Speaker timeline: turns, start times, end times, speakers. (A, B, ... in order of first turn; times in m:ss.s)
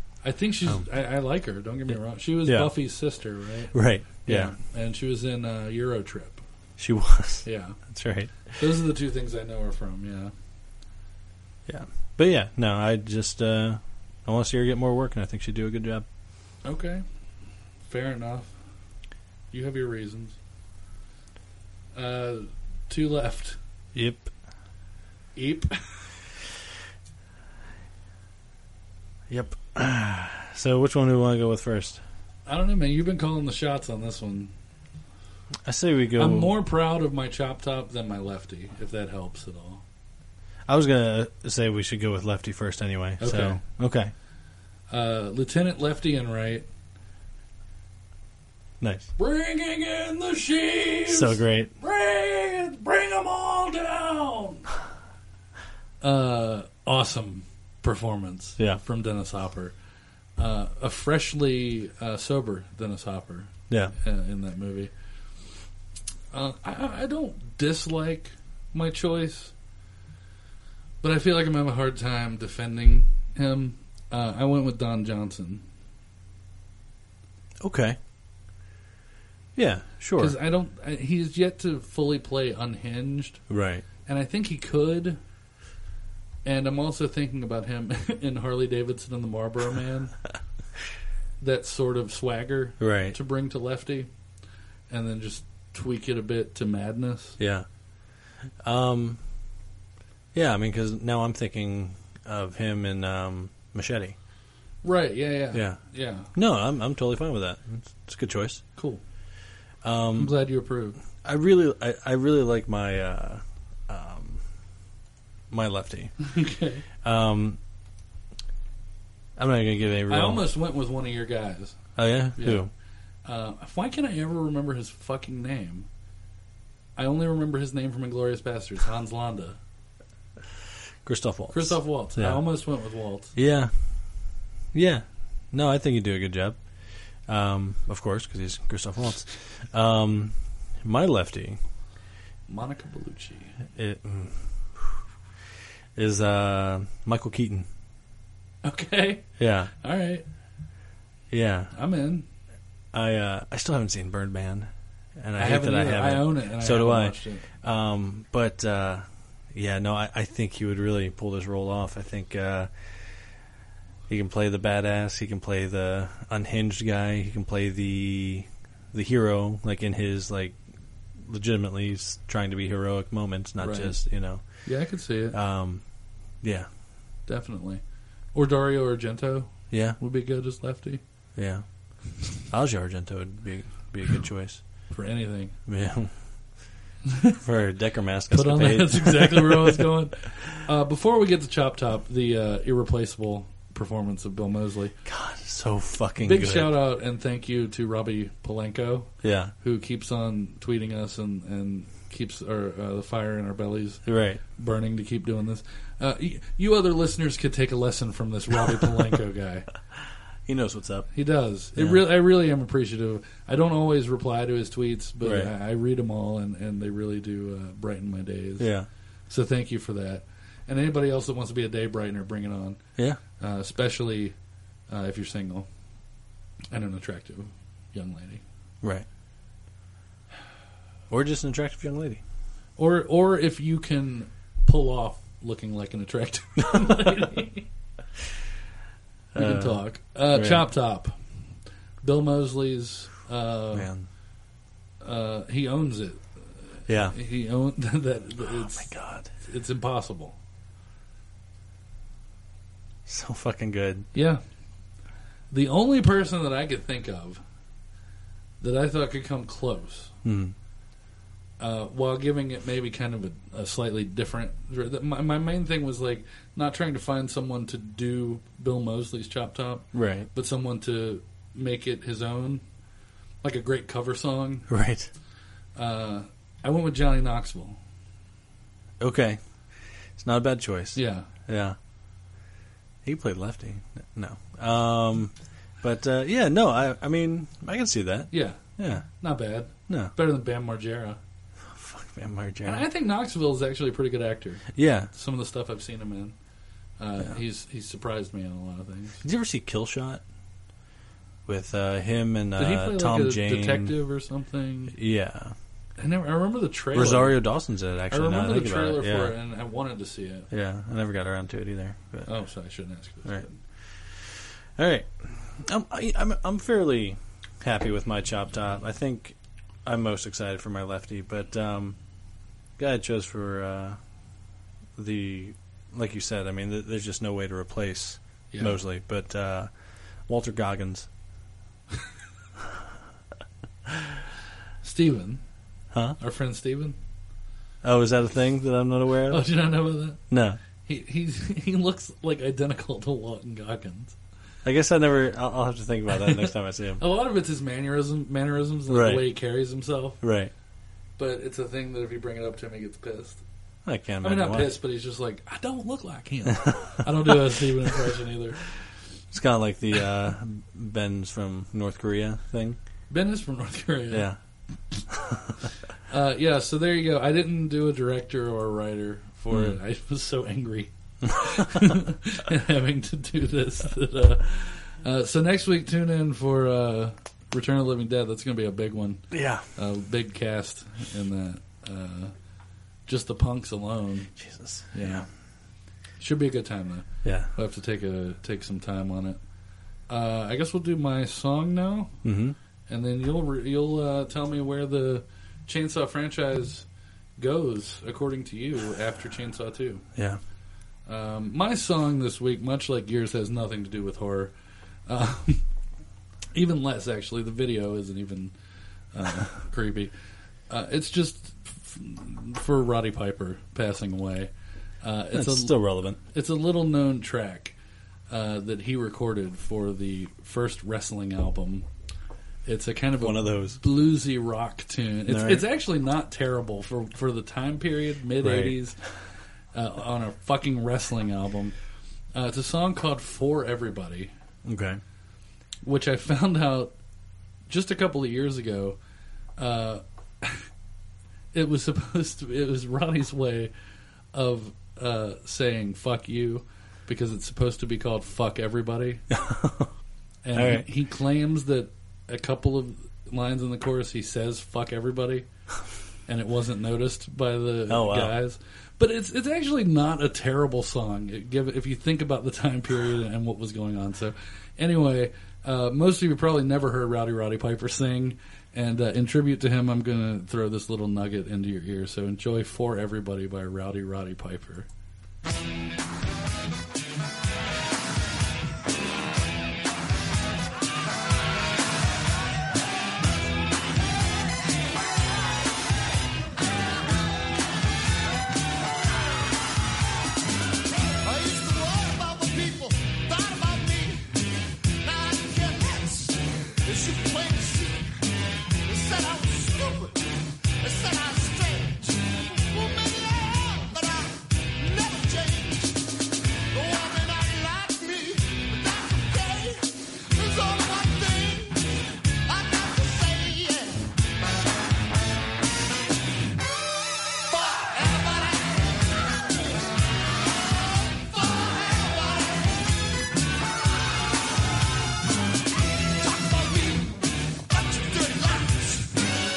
0:00.2-0:06.4 A
0:02.4-0:02.8 B
0:03.7-0:04.6 B
0:06.8-0:08.5 B
0:07.4-0:07.8 A
0:08.5-0:10.3 A
0:11.7-0:16.1 B
0:16.6-0:17.0 A
0:17.9-0:18.5 A
0:19.5-0:20.4 A
0:21.9-0:23.6 A
0:23.9-0:24.3 B
0:25.4-0:25.8 A
0:29.3-0:32.0 B
0:32.5-0:34.5 A
0:35.6-0:36.6 B
0:36.2-0:39.8 A
0:40.7-0:44.1 B
0:43.2-0:43.6 A
0:44.9-0:46.7 A
0:48.8-0:49.1 B
0:49.2-0:54.7 A
0:51.1-0:51.7 B
0:56.0-0:59.8 A
1:00.4-1:04.9 A
1:06.3-1:09.5 A
1:11.0-1:15.6 A
1:17.6-1:18.0 B
1:19.6-1:20.4 B
1:20.2-1:23.4 A
1:23.5-1:23.8 B
1:24.1-1:25.2 A
1:26.4-1:30.2 A
1:31.4-1:34.1 A
1:32.8-1:33.2 B
1:34.9-1:37.4 A
1:37.4-1:37.7 B
1:38.6-1:39.2 B
1:40.3-1:44.2 B
1:44.8-1:46.3 A
1:45.5-1:45.8 B
1:46.3-1:48.6 B
1:48.8-1:49.0 A
1:49.8-1:50.4 B
1:50.2-1:51.0 A
1:51.2-1:54.4 B
1:55.5-1:56.2 B
1:56.2-1:56.8 A
1:57.0-1:57.6 B
1:59.4-2:00.5 B
2:00.1-2:01.8 A
2:02.0-2:02.7 B
2:02.4-2:02.7 A
2:03.2-2:05.9 A
2:07.0-2:09.6 A
2:11.0-2:12.6 B
2:11.5-2:13.3 A
2:13.4-2:13.7 B
2:14.7-2:16.6 B
2:17.3-2:21.6 B
2:22.5-2:23.6 A
2:23.8-2:25.0 B
2:26.0-2:27.7 B
2:28.6-2:29.3 A
2:29.4-2:29.7 B
2:29.8-2:30.2 A
2:31.3-2:31.7 B
2:31.7-2:32.3 A
2:32.9-2:43.1 B
2:35.4-2:37.5 A
2:44.1-2:50.6 B
2:51.2-2:54.7 B
2:53.6-2:55.4 A
2:55.3-2:55.8 B
2:56.4-2:56.7 B
2:57.3-2:57.8 A
2:58.3-3:01.0 A
2:59.7-3:00.0 B
3:01.4-3:04.8 B
3:04.9-3:05.6 A
3:05.7-3:06.6 B
3:07.4-3:09.9 B
3:08.3-3:15.0 A
3:15.0-3:16.8 B
3:16.2-3:29.7 A
3:19.2-3:19.5 B
3:24.1-3:24.4 B
3:30.5-3:31.1 B
3:31.1-3:38.7 A
3:31.8-3:32.0 B
3:35.2-3:35.5 B
3:38.6-3:38.9 B
3:39.3-3:42.8 A
3:43.4-3:44.4 A
3:44.9-3:45.7 A
3:46.7-3:48.4 A
3:51.1-3:52.2 B
3:52.8-3:57.7 A
3:56.8-3:57.1 B
3:59.3-4:00.7 B
3:59.4-4:01.2 A
4:02.0-4:03.9 A
4:03.7-4:04.1 B
4:05.0-4:06.3 A
4:06.9-4:07.2 B
4:07.1-4:10.4 A
4:08.4-4:09.3 B
4:13.1-4:14.1 B
4:14.1-4:14.4 A
4:15.5-4:17.4 A
4:18.6-4:20.1 A
4:20.2-4:20.6 B
4:21.6-4:32.6 A
4:29.9-4:30.3 B
4:33.4-4:34.7 A
4:34.7-4:35.1 B
4:35.8-4:37.8 A
4:39.0-4:39.4 B
4:40.2-4:41.8 B
4:41.0-4:41.3 A
4:43.0-4:49.1 B
4:48.3-4:48.6 A
4:49.2-4:51.2 A
4:49.9-4:50.1 B
4:51.6-4:52.9 B
4:52.6-4:56.4 A
4:54.7-4:55.1 B
4:57.0-4:59.2 A
4:59.2-5:00.2 B
5:01.5-5:04.0 B
5:02.6-5:05.0 A
5:04.9-5:05.6 B
5:06.0-5:07.4 A
5:06.9-5:09.4 B
5:08.1-5:10.5 A
5:10.5-5:12.3 B
5:12.3-5:13.6 A
5:13.2-5:22.0 B
5:22.8-5:24.0 B
5:25.0-5:29.7 B
5:28.5-5:28.8 A
5:30.3-5:31.1 B
5:34.8-5:35.4 A
5:35.9-5:36.2 B
5:36.2-5:37.0 A
5:37.8-5:39.5 B
5:39.3-5:40.2 A
5:40.3-5:40.6 B
5:40.8-5:44.2 A
5:44.6-5:47.0 B
5:46.1-5:50.2 A
5:48.9-5:49.3 B
5:50.2-5:50.5 B
5:51.2-5:53.4 A
5:53.8-5:54.8 B
5:54.2-5:58.7 A
5:56.5-5:57.4 B
5:59.3-6:02.8 B
6:03.1-6:04.3 A
6:04.1-6:04.4 B
6:05.1-6:05.5 B
6:06.1-6:22.3 A
6:09.5-6:09.8 B
6:19.3-6:19.7 B
6:23.1-6:24.4 A
6:24.4-6:25.3 B
6:24.9-6:25.3 A
6:26.2-6:29.4 A
6:27.2-6:27.5 B
6:30.1-6:32.2 A
6:32.2-6:32.6 B
6:32.9-6:36.9 A
6:37.4-6:40.1 A
6:41.1-6:44.5 A
6:45.1-6:45.6 A
6:46.5-6:48.5 A
6:49.1-6:50.1 A
6:50.7-6:57.8 A
6:55.3-6:56.2 B
6:58.3-7:01.9 A
7:02.7-7:09.1 A
7:03.2-7:03.8 B
7:05.3-7:05.7 B
7:08.4-7:08.8 B
7:09.7-7:11.8 A
7:12.3-7:14.3 A
7:14.6-7:15.0 B
7:15.8-7:17.0 A
7:17.7-7:19.0 A
7:19.6-7:20.6 A
7:21.5-7:23.7 A
7:24.3-7:29.2 A
7:29.3-7:29.9 B
7:30.4-7:35.5 A
7:30.5-7:30.9 B
7:36.3-7:54.9 A
7:37.9-7:38.4 B
8:11.2-8:14.3 C
8:15.0-8:18.1 C
8:18.8-8:20.2 C
8:20.8-8:26.0 C
8:26.7-8:34.1 C
8:37.3-8:42.8 C
8:46.0-8:49.2 C